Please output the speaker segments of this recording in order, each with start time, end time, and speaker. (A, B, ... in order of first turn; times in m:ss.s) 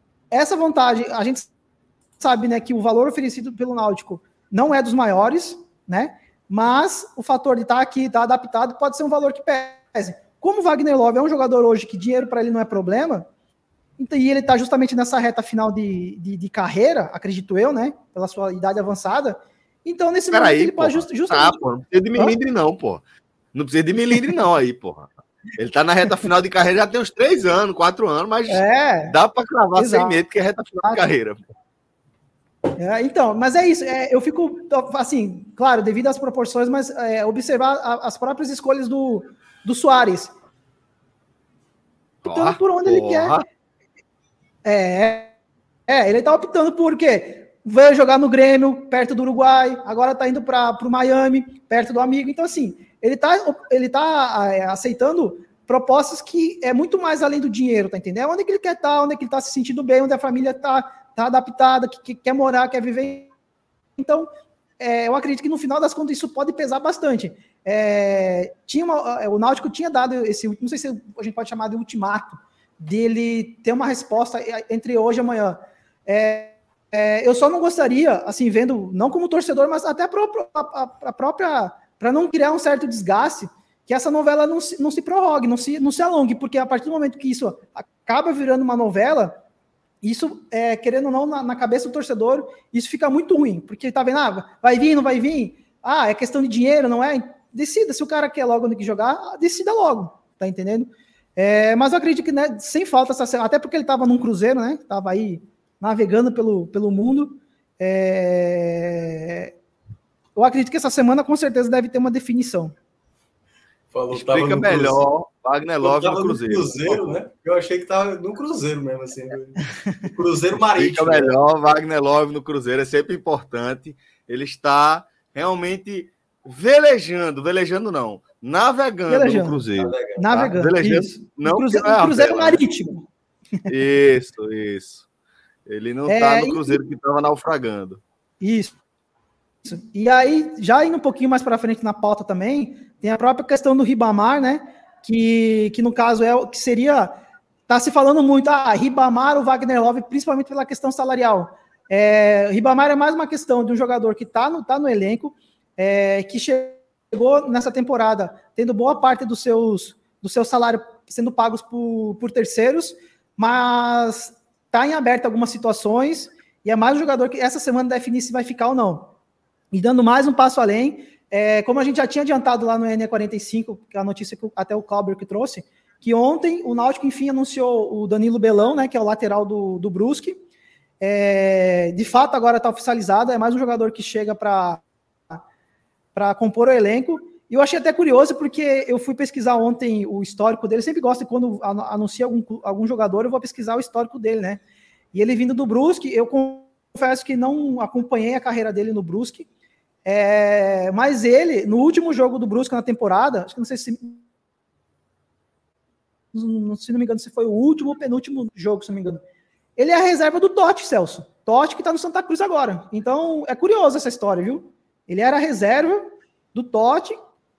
0:00.3-0:01.5 A
0:02.2-0:13.3 A
0:14.0-0:21.6 A
0:20.3-0:31.4 B
0:28.5-0:29.2 A
0:29.8-0:30.2 A
0:32.8-0:40.3 A
0:42.2-0:43.4 B
0:42.3-0:43.4 A
0:44.6-0:45.4 A
0:45.9-1:03.3 A
1:04.0-1:29.4 A
1:30.0-1:49.5 A
1:50.4-1:52.7 A
1:53.9-1:55.0 C
1:54.1-1:57.2 B
1:55.8-2:01.4 C
2:00.8-2:12.6 B
2:09.1-2:09.7 A
2:09.8-2:10.2 C
2:10.2-2:13.1 A
2:13.7-2:15.1 B
2:15.7-2:18.0 B
2:16.1-2:16.8 A
2:18.4-2:18.8 A
2:19.6-2:49.1 A
2:49.7-3:00.4 A
3:01.0-3:05.4 A
3:06.2-3:14.6 A
3:15.1-3:19.5 A
3:20.0-3:24.2 A
3:26.3-3:29.2 A
3:29.8-3:37.2 A